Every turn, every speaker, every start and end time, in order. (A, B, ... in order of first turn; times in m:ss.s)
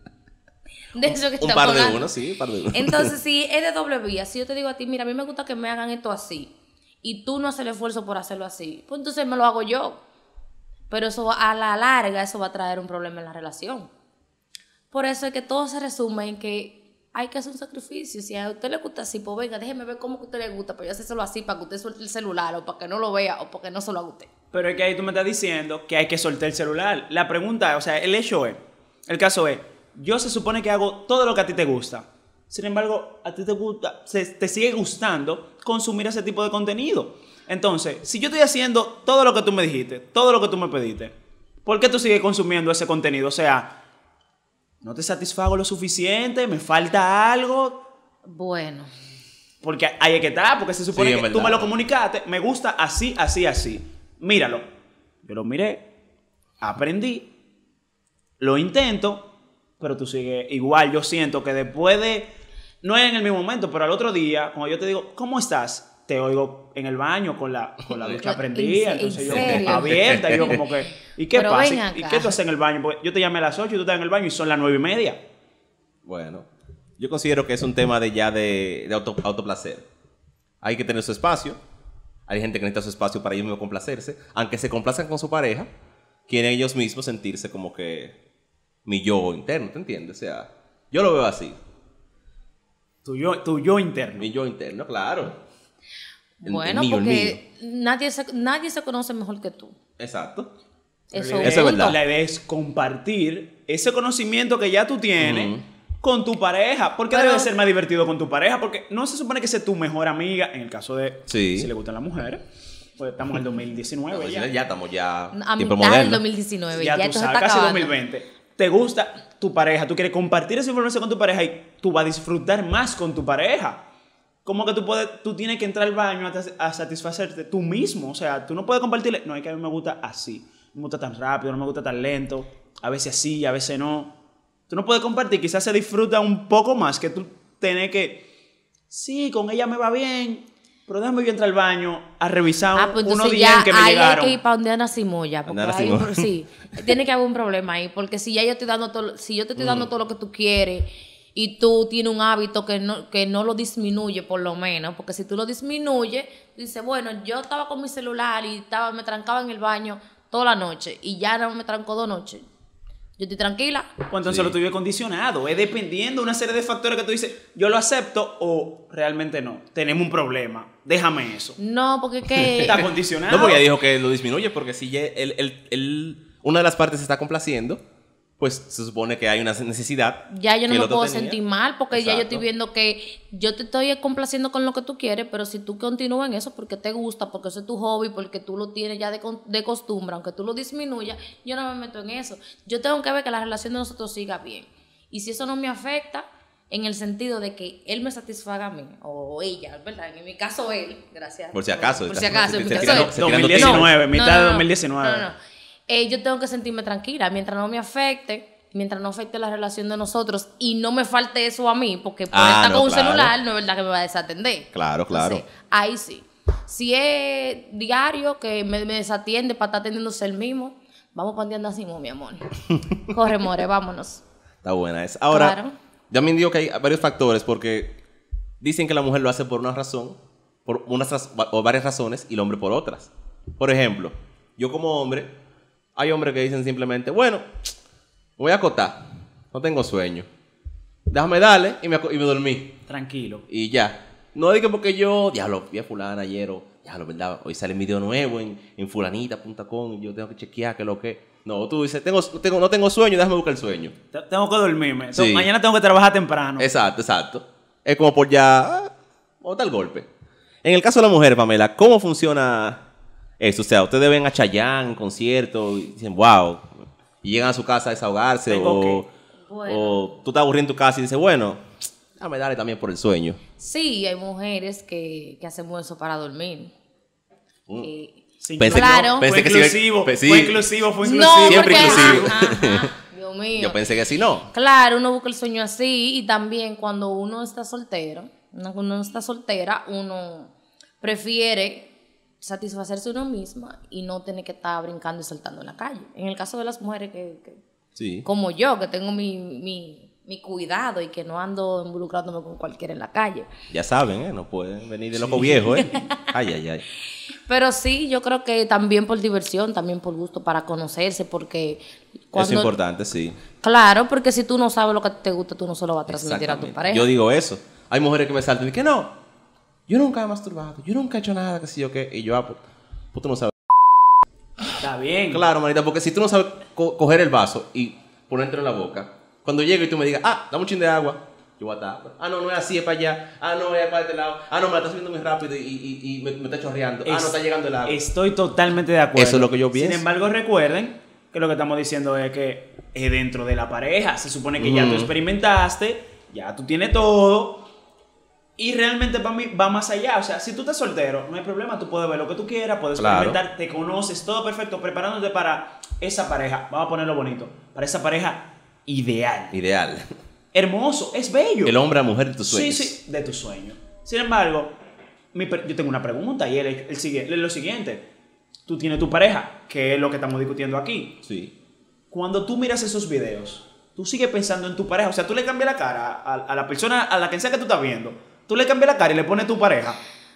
0:00.9-0:02.1 A
0:01.0-0:03.1 B
0:02.7-0:10.0 A
0:10.9-0:13.9 A
0:14.9-0:24.3 A
0:24.5-0:41.1 C
0:41.6-0:43.7 C
0:44.8-0:47.8 C
0:48.2-0:48.9 A
0:49.6-0:54.7 C
0:50.9-0:51.7 B
0:55.2-0:55.9 C
0:56.6-0:57.3 C
0:58.4-1:02.3 C
1:02.8-1:15.2 C
1:08.2-1:10.6 A
1:09.3-1:10.6 B
1:11.3-1:12.4 A
1:16.0-1:19.9 B
1:20.6-1:21.6 B
1:22.3-1:25.7 B
1:26.3-1:28.2 B
1:28.8-1:31.6 B
1:33.0-1:34.3 C
1:34.2-1:35.4 B
1:36.4-1:39.8 A
1:36.4-1:37.4 B
1:40.0-1:40.5 B
1:41.1-1:52.4 C
1:41.1-1:42.0 A
1:41.4-1:42.0 B
1:45.2-1:45.6 B
1:47.1-1:47.5 A
1:51.3-1:51.7 B
1:53.0-1:54.5 C
1:54.1-1:56.2 B
1:55.3-1:57.9 A
1:56.7-2:03.8 C
2:04.4-2:14.1 C
2:14.7-2:18.2 C
2:18.9-2:24.4 C
2:22.7-2:42.4 A
2:25.5-2:26.3 B
2:29.6-2:29.9 B
2:43.2-2:43.9 A
2:44.1-2:51.6 C
2:44.2-2:44.5 B
2:51.6-2:52.8 A
2:52.3-2:57.8 B
2:52.6-2:53.6 C
2:58.4-3:01.4 B
3:00.3-3:25.4 A
3:01.9-3:02.4 B
3:21.5-3:23.9 B
3:22.7-3:25.3 C
3:25.9-3:44.2 A
3:32.3-3:33.3 B
3:34.7-3:35.4 B
3:44.6-3:45.6 B
3:45.3-3:45.7 A
3:46.1-3:48.0 B
3:48.6-3:55.3 B
3:56.0-3:57.5 B
3:58.4-3:59.0 B
3:59.5-4:00.3 B
4:01.1-4:02.8 B
4:02.9-4:03.4 C
4:03.5-4:13.9 B
4:14.1-4:16.7 C
4:15.1-4:15.4 B
4:16.6-4:20.1 B
4:20.6-4:22.8 B
4:23.4-4:26.7 B
4:27.2-4:29.1 B
4:28.5-4:29.0 C
4:29.4-4:30.1 A
4:29.6-4:31.6 B
4:32.2-4:33.4 B
4:33.6-4:36.7 A
4:37.8-4:39.3 A
4:38.4-4:42.4 C
4:38.6-4:40.6 B
4:41.0-4:43.8 A
4:41.4-4:42.9 B
4:43.6-4:44.5 B
4:44.5-4:57.6 A
4:58.0-4:58.3 B
4:58.2-5:03.5 A
5:03.7-5:06.8 B
5:05.1-5:06.0 C
5:07.5-5:12.7 A
5:12.3-5:13.4 B
5:13.6-5:17.1 A
5:16.1-5:19.2 B
5:19.9-5:22.6 B
5:23.1-5:23.5 B
5:24.8-5:25.4 C
5:25.3-5:38.0 B
5:37.0-5:47.6 C
5:39.2-5:40.0 B
5:44.6-5:45.1 B
5:48.6-5:59.6 C
5:53.0-5:53.4 B
5:59.5-6:00.1 B
6:00.5-6:01.8 C
6:01.6-6:02.9 B
6:02.4-6:04.8 C
6:05.3-6:08.1 C
6:08.7-6:11.2 C
6:11.2-6:11.5 B
6:12.1-6:20.0 C